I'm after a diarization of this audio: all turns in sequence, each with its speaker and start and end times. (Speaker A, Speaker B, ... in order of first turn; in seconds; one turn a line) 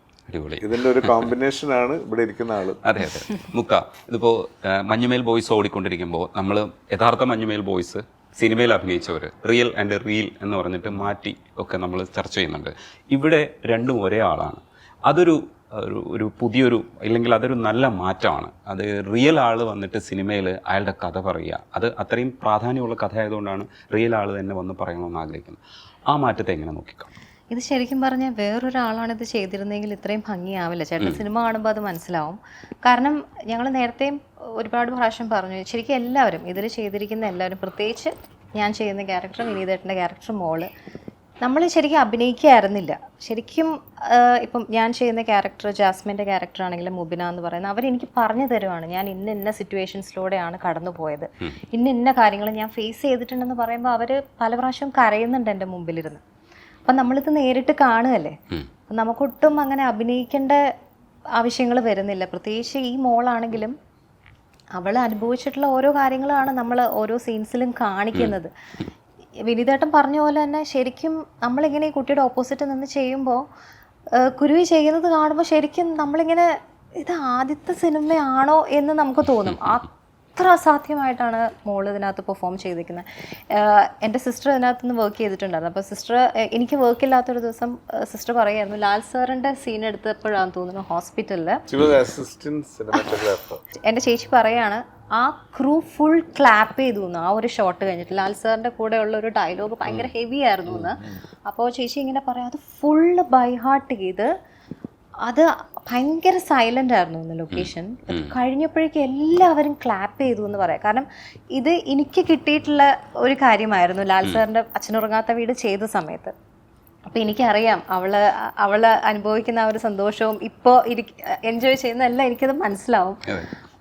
Speaker A: 0.3-1.3
Speaker B: 0.6-2.8
Speaker A: 2.8-27.1
Speaker C: 27.5-40.7
Speaker C: 41.4-56.2
Speaker C: 56.9-58.4
Speaker C: 58.9-60.6
Speaker C: 61.4-63.8
Speaker C: 64.8-68.5
Speaker C: 69.5-73.4
Speaker C: 74.2-91.7
Speaker B: 91.7-93.6
Speaker C: 93.8-104.3
Speaker C: 105.3-116.3
Speaker A: 107.5-108.4
Speaker C: 117.1-123.2